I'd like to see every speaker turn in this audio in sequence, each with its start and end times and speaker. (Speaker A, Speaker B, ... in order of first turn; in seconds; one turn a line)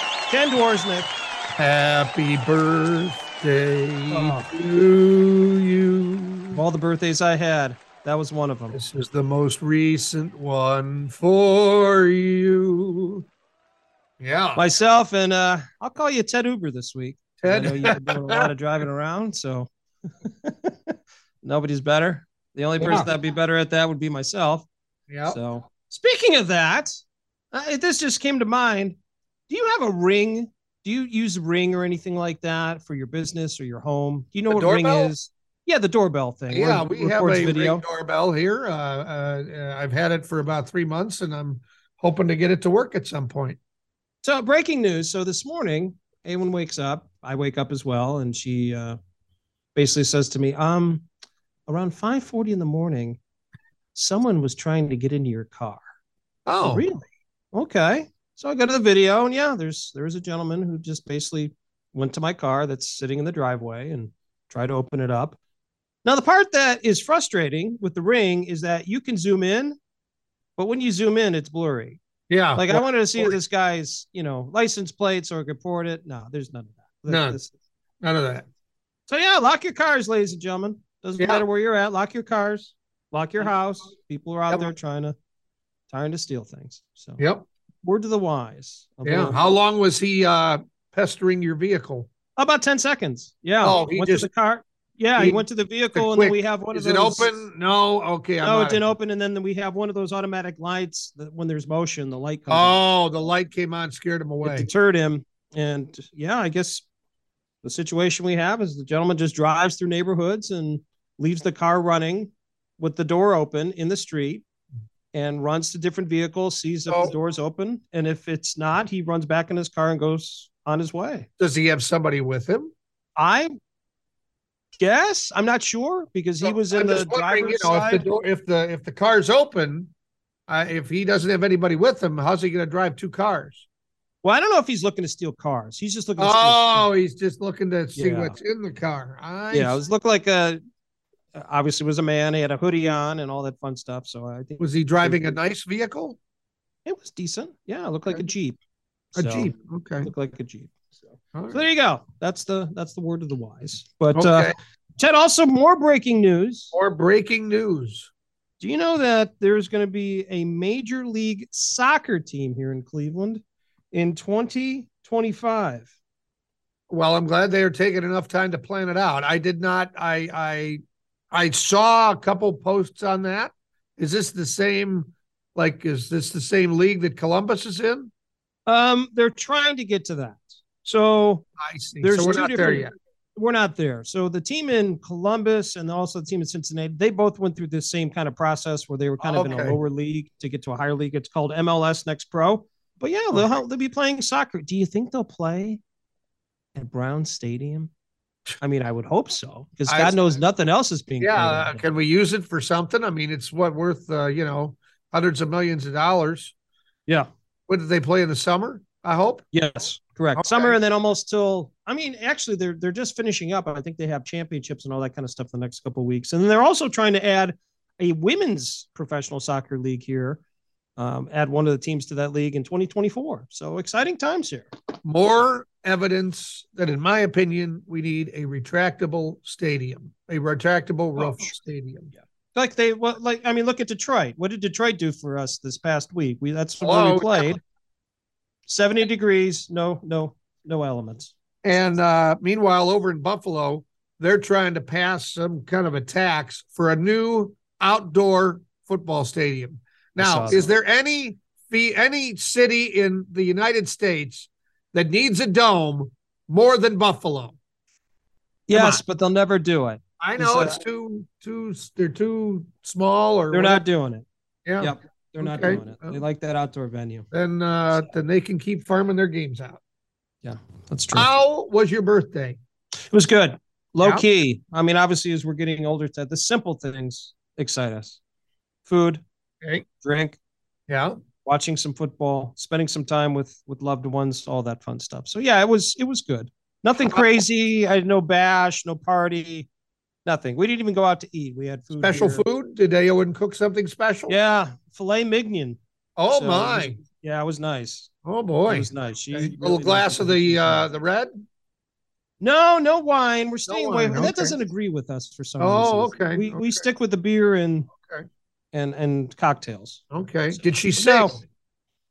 Speaker A: 0.3-1.1
Speaker B: 1.5-6.6
Speaker A: 4.1-4.5
Speaker A: 6.5-8.8
Speaker B: 8.7-13.2
Speaker B: 14.2-14.6
Speaker A: 14.6-19.7
Speaker B: 17.4-18.5
Speaker A: 20.2-24.7
Speaker B: 22.8-23.1
Speaker B: 25.1-25.4
Speaker A: 25.3-29.0
Speaker A: 29.5-37.8
Speaker B: 34.5-35.1
Speaker B: 36.5-43.6
Speaker A: 44.2-49.0
Speaker A: 49.8-51.1
Speaker A: 51.7-53.2
Speaker A: 54.0-55.9
Speaker B: 56.5-56.8
Speaker A: 56.6-65.4
Speaker A: 66.0-69.8
Speaker A: 70.6-72.0
Speaker B: 72.3-73.4
Speaker A: 72.5-77.5
Speaker B: 77.1-77.4
Speaker B: 78.0-78.5
Speaker A: 79.1-85.2
Speaker B: 81.2-81.4
Speaker A: 85.9-87.2
Speaker B: 87.2-87.5
Speaker A: 87.8-89.4
Speaker B: 89.0-92.1
Speaker A: 92.4-97.3
Speaker B: 93.6-94.3
Speaker B: 95.2-98.9
Speaker A: 98.4-102.8
Speaker B: 102.5-104.7
Speaker A: 104.4-106.8
Speaker A: 107.6-114.4
Speaker A: 115.1-121.3
Speaker B: 116.9-117.1
Speaker B: 121.4-122.7
Speaker A: 123.2-123.5
Speaker A: 124.8-128.0
Speaker B: 126.4-129.9
Speaker B: 130.5-133.7
Speaker A: 134.2-136.9
Speaker B: 136.2-139.8
Speaker A: 138.0-138.3
Speaker A: 139.5-140.6
Speaker A: 141.3-145.4
Speaker B: 144.6-146.2
Speaker A: 146.8-148.6
Speaker B: 149.1-150.1
Speaker A: 149.2-156.7
Speaker B: 151.3-151.6
Speaker B: 154.1-154.6
Speaker B: 156.7-158.1
Speaker A: 158.6-165.9
Speaker B: 166.9-178.1
Speaker A: 178.7-181.5
Speaker B: 181.6-182.9
Speaker A: 182.0-195.8
Speaker B: 189.2-189.8
Speaker A: 196.8-197.9
Speaker A: 198.6-201.8
Speaker B: 199.9-200.4
Speaker B: 201.2-206.5
Speaker B: 207.7-209.4
Speaker A: 209.5-220.4
Speaker B: 210.4-210.8
Speaker A: 221.0-224.7
Speaker B: 225.0-232.1
Speaker A: 232.6-237.6
Speaker B: 236.8-237.5
Speaker A: 238.7-241.3
Speaker B: 241.6-257.6
Speaker A: 250.2-250.7
Speaker A: 258.7-260.8
Speaker B: 258.7-259.0
Speaker B: 260.2-263.8
Speaker A: 263.5-264.3
Speaker B: 264.6-266.2
Speaker A: 264.8-267.3
Speaker B: 267.3-269.8
Speaker A: 270.4-271.3
Speaker B: 271.1-272.6
Speaker A: 273.1-278.2
Speaker B: 274.0-274.2
Speaker A: 278.9-279.2
Speaker A: 280.0-280.4
Speaker B: 280.9-281.2
Speaker A: 281.4-289.7
Speaker A: 290.2-292.4
Speaker B: 292.0-294.4
Speaker A: 294.3-298.1
Speaker B: 296.2-297.0
Speaker B: 298.2-301.3
Speaker A: 298.7-300.9
Speaker A: 302.4-307.9
Speaker B: 303.7-304.6
Speaker B: 305.6-306.8
Speaker B: 308.0-308.3
Speaker A: 308.7-311.4
Speaker B: 310.1-311.4